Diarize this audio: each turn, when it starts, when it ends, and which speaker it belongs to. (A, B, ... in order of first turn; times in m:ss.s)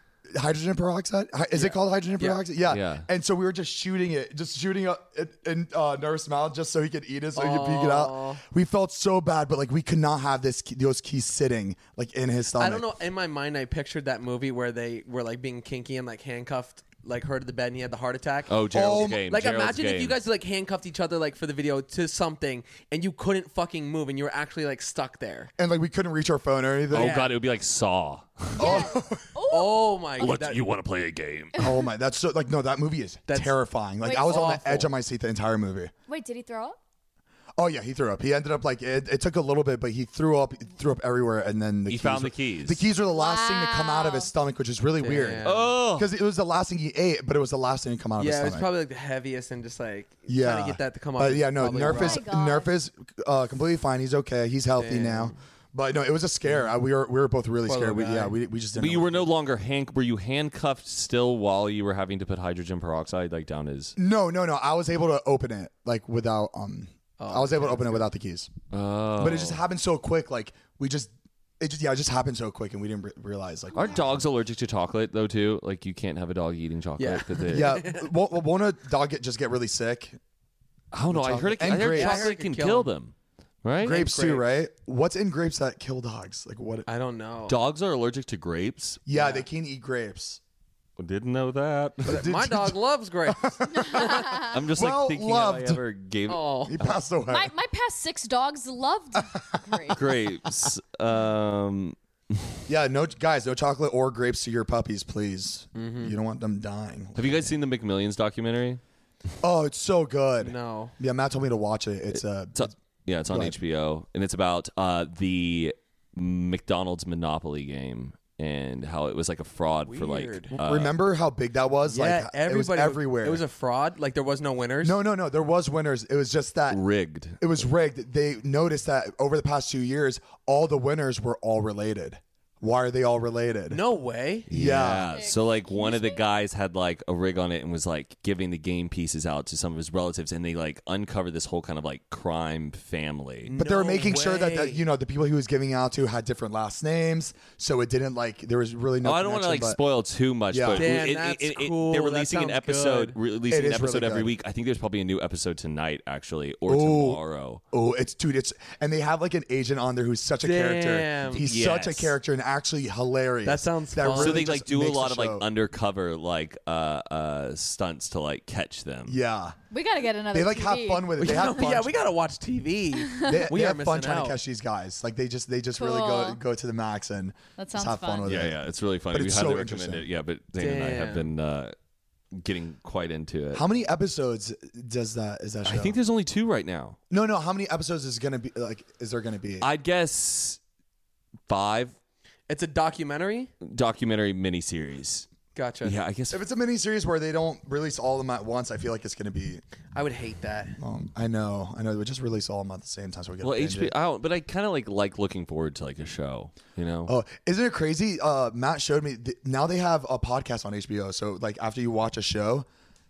0:00.3-0:12.9 A
0:01.6-0:02.4 B
0:02.7-0:03.1 C
0:07.4-0:08.4 B
0:12.6-0:25.5 B
0:18.5-0:20.2 C
0:18.7-0:19.2 A
0:25.6-0:27.2 A
0:26.9-0:29.0 C
0:26.9-0:27.3 B
0:28.6-0:30.3 D
0:28.6-0:29.3 A
0:29.5-0:30.6 B
0:30.2-0:31.7 C
0:31.6-0:35.9 A
0:33.3-0:33.6 B
0:34.0-0:34.6 D
0:34.2-0:34.9 B
0:36.1-0:36.8 D
0:37.6-0:48.7 A
0:41.9-0:42.8 C
0:43.1-0:44.3 D
0:45.0-0:45.7 B
0:45.4-0:46.1 C
0:48.2-0:52.3 B
0:50.3-0:59.3 A
0:51.7-0:52.7 D
0:54.8-0:55.4 B
0:57.7-0:58.4 B
0:58.8-1:04.0 C
1:04.0-1:08.5 A
1:07.2-1:08.1 B
1:08.7-1:09.6 C
1:09.2-1:14.2 A
1:13.7-1:17.8 C
1:17.0-1:18.1 B
1:17.5-1:20.2 A
1:20.9-1:24.0 C
1:21.1-1:22.3 A
1:21.8-1:22.9 B
1:23.8-1:26.9 A
1:23.8-1:24.5 B
1:26.9-1:27.6 B
1:27.5-1:29.0 C
1:29.1-1:30.4 A
1:29.1-1:29.4 B
1:31.0-1:32.2 C
1:32.0-1:35.8 A
1:32.1-1:34.1 B
1:33.7-1:34.6 D
1:34.3-1:37.0 C
1:36.3-1:36.8 B
1:36.7-1:37.5 A
1:37.3-1:40.0 D
1:39.2-1:40.0 A
1:39.9-1:42.0 C
1:42.7-1:47.6 A
1:45.8-1:46.2 B
1:47.2-1:48.8 C
1:49.4-1:52.7 A
1:50.4-1:50.9 B
1:52.1-2:00.9 C
1:53.3-1:53.6 A
1:59.9-2:00.5 B
2:00.6-2:03.4 A
2:01.9-2:05.0 B
2:04.8-2:06.8 A
2:06.7-2:07.4 C
2:07.4-2:13.8 A
2:13.7-2:14.5 B
2:14.5-2:15.2 A
2:14.5-2:23.5 C
2:15.1-2:16.2 D
2:23.5-2:24.8 B
2:23.6-2:29.8 A
2:29.0-2:37.6 C
2:30.5-2:30.9 A
2:30.7-2:33.2 B
2:33.5-2:34.3 A
2:36.7-2:37.2 A
2:37.7-2:45.5 A
2:40.4-2:41.4 B
2:41.4-2:42.2 C
2:43.4-2:44.5 B
2:44.0-2:49.2 C
2:49.1-2:49.6 A
2:49.7-2:51.6 D
2:50.3-2:51.9 A
2:51.2-2:54.4 B
2:53.0-2:53.5 D
2:53.2-3:00.1 A
2:55.8-2:56.4 D
2:57.6-2:58.4 D
2:58.2-3:01.8 C
3:00.6-3:01.3 B
3:02.3-3:03.6 C
3:03.5-3:06.0 A
3:05.6-3:07.0 C
3:07.1-3:09.7 A
3:09.6-3:10.6 C
3:11.5-3:12.0 C
3:12.5-3:13.5 B
3:13.6-3:15.3 C
3:15.6-3:16.0 B
3:15.8-3:16.4 C
3:16.3-3:19.6 A
3:20.0-3:20.8 B
3:20.8-3:24.0 A
3:23.4-3:27.1 C
3:27.1-3:32.7 A